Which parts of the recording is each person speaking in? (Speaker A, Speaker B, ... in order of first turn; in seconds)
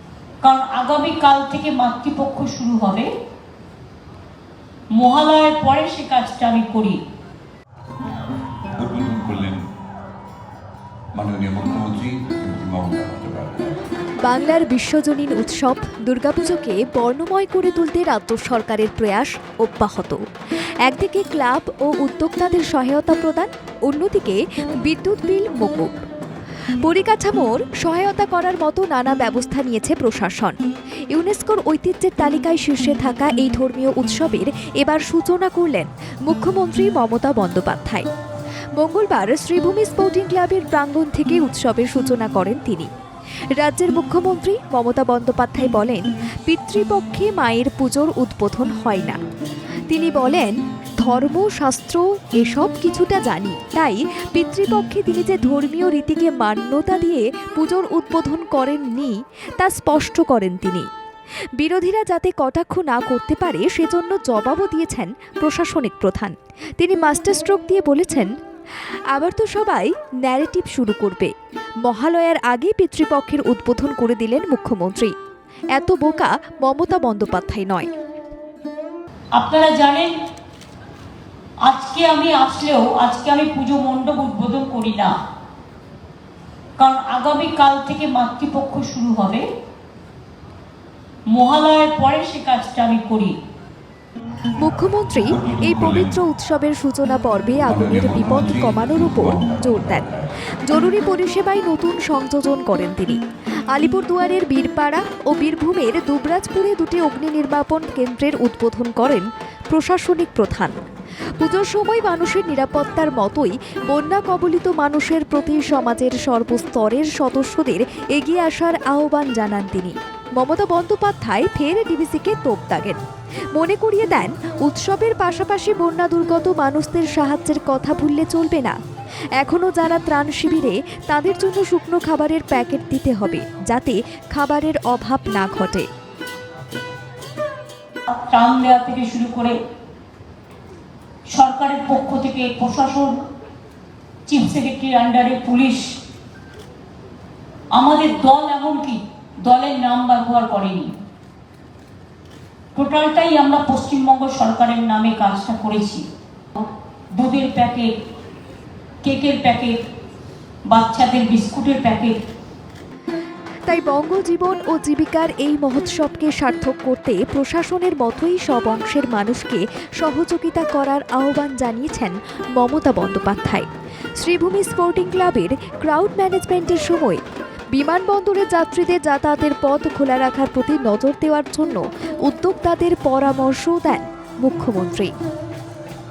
Speaker A: 0.4-3.1, 5.0-7.0, 79.4-80.1, 81.7-85.1, 86.8-89.5, 91.3-93.3, 138.1-139.6, 141.3-143.2, 144.3-145.9, 147.7-150.9, 152.8-156.0, 157.2-157.9, 159.0-159.8, 160.7-162.2
Speaker B: 8.8-9.6, 11.2-13.8, 95.3-96.2, 97.6-100.4
Speaker C: 14.2-20.2, 20.9-25.9, 26.8-30.6, 31.1-38.1, 38.8-42.9, 43.6-49.2, 49.9-60.9, 61.6-68.3, 69.1-71.3, 71.8-75.1, 75.8-77.9, 94.6-100.1, 100.7-103.2, 103.7-110.8, 111.4-123.0, 123.5-128.8, 129.4-135.9, 163.7-173.7, 174.2-177.2, 177.7-185.1